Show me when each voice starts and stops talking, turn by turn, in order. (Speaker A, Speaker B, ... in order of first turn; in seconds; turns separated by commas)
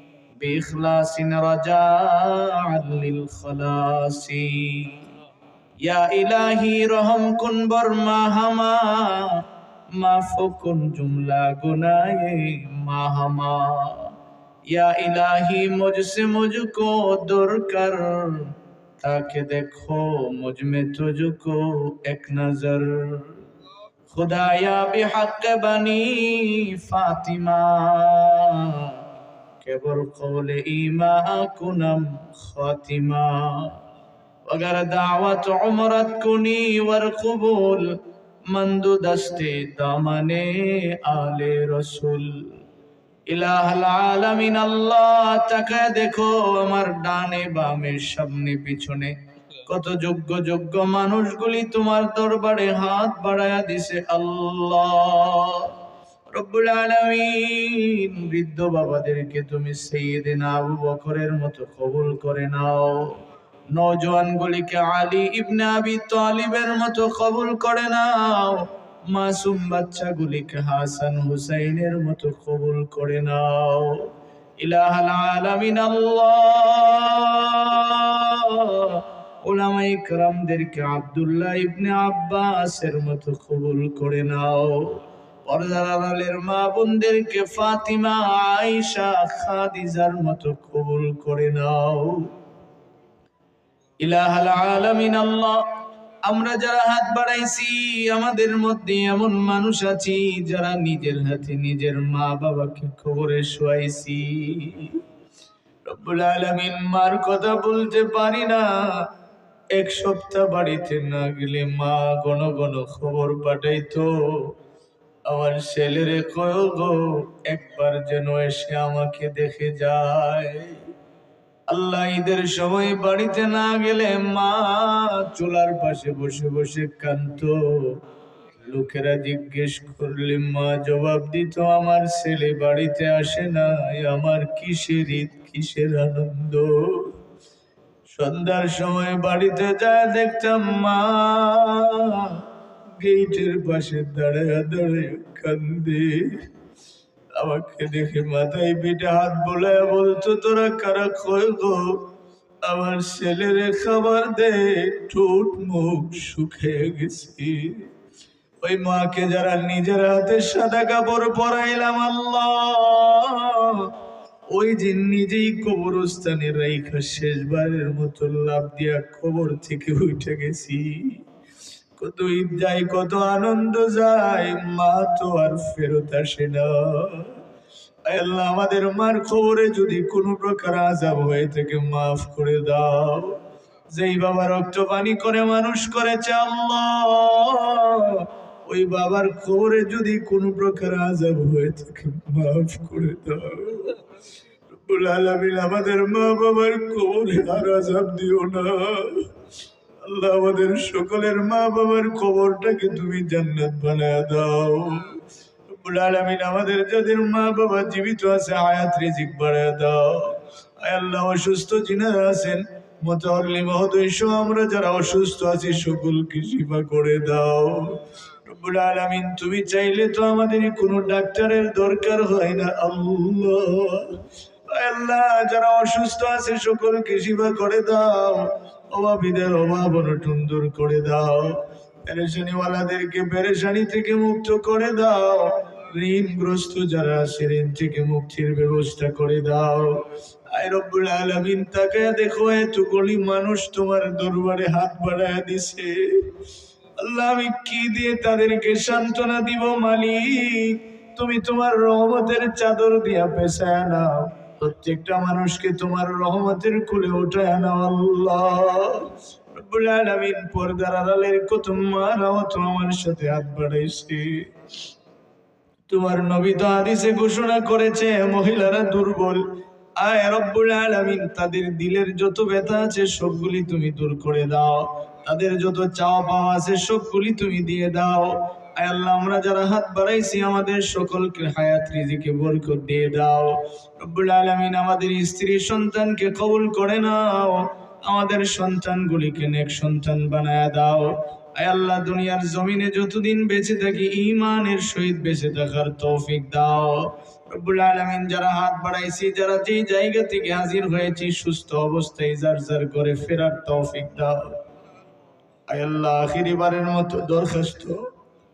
Speaker A: 0.4-5.0, Speaker A: 5.8-14.1, Speaker A: 14.7-23.4, Speaker A: 24.1-29.0, Speaker A: 29.6-33.8, Speaker A: 34.5-42.5, Speaker A: 43.3-49.1, Speaker A: 49.6-55.7, Speaker A: 56.3-63.2, Speaker A: 63.7-74.1, Speaker A: 74.6-92.3, Speaker A: 94.0-95.6, Speaker A: 96.2-105.0, Speaker A: 105.8-109.1, Speaker A: 109.7-114.5, Speaker A: 115.2-120.9, Speaker A: 121.7-128.0, Speaker A: 128.6-137.1, Speaker A: 138.1-142.4, Speaker A: 143.0-146.5, Speaker A: 147.3-152.1, Speaker A: 152.6-157.9, Speaker A: 158.6-163.9, Speaker A: 164.5-171.2, Speaker A: 172.0-177.4, Speaker A: 178.1-194.0, Speaker A: 194.7-199.3, Speaker A: 200.0-246.3, Speaker A: 247.0-264.5, Speaker A: 265.9-304.6, Speaker A: 305.7-308.1